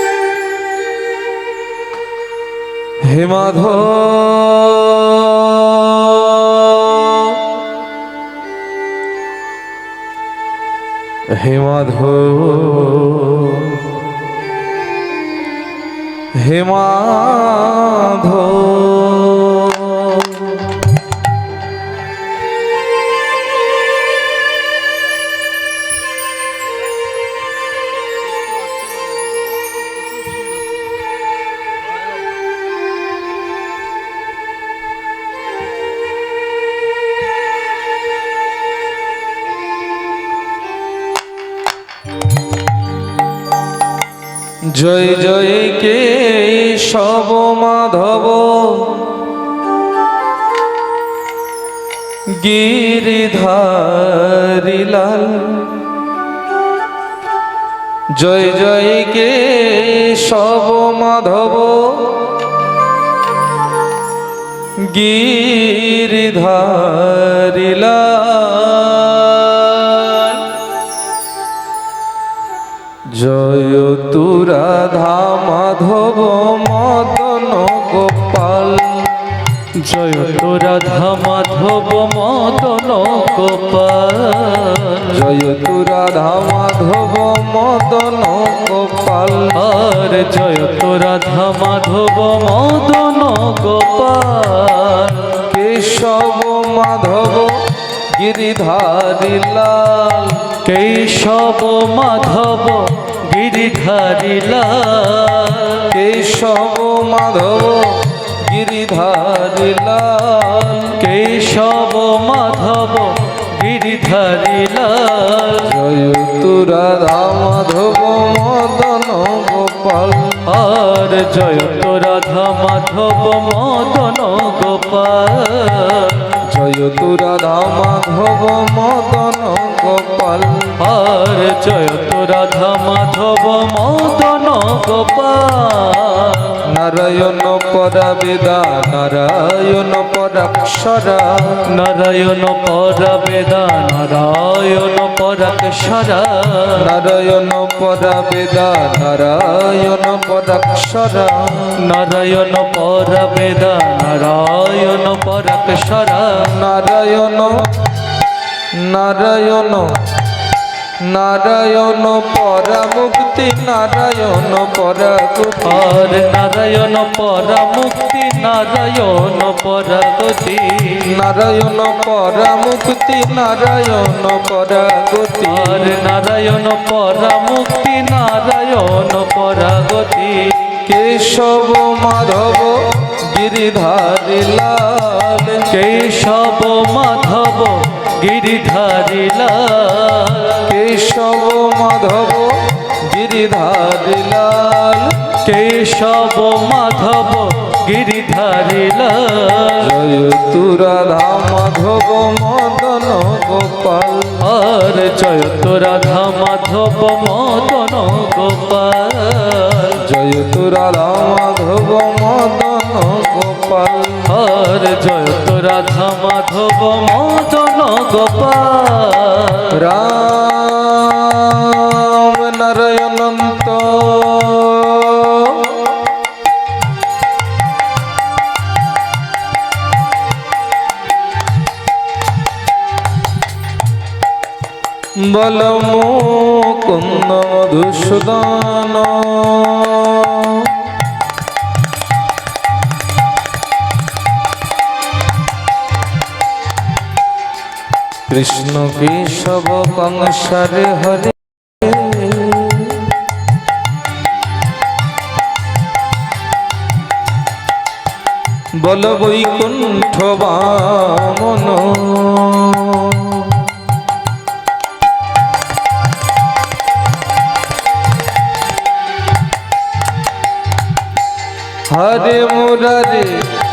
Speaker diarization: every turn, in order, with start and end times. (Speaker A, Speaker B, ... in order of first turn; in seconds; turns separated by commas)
Speaker A: 3.0-7.4, Speaker A: 11.3-14.0, Speaker A: 16.3-20.8, Speaker A: 44.7-49.2, Speaker A: 52.3-55.9, Speaker A: 58.1-62.4, Speaker A: 64.8-70.3, Speaker A: 73.1-79.2, Speaker B: 79.8-85.2, Speaker A: 85.1-89.6, Speaker B: 89.5-95.5, Speaker A: 95.5-100.5, Speaker B: 100.6-105.9, Speaker A: 105.9-111.0, Speaker B: 111.0-115.8, Speaker A: 115.6-120.5, Speaker B: 120.5-126.4, Speaker A: 126.4-130.8, Speaker B: 130.8-136.6, Speaker A: 136.6-141.7, Speaker B: 141.7-146.9, Speaker A: 146.8-151.8, Speaker B: 151.8-156.6, Speaker A: 156.4-157.7, Speaker A: 158.7-159.9, Speaker A: 161.0-165.9, Speaker B: 165.6-171.1, Speaker A: 171.0-176.0, Speaker B: 175.5-180.7, Speaker A: 180.8-185.7, Speaker B: 185.7-190.7, Speaker A: 190.7-195.3, Speaker B: 195.4-199.9, Speaker A: 199.8-204.4, Speaker B: 204.4-210.0, Speaker A: 210.0-214.3, Speaker B: 214.3-219.8, Speaker A: 219.7-225.9, Speaker A: 235.2-240.8, Speaker A: 248.3-253.1, Speaker A: 258.8-263.8, Speaker A: 271.9-273.4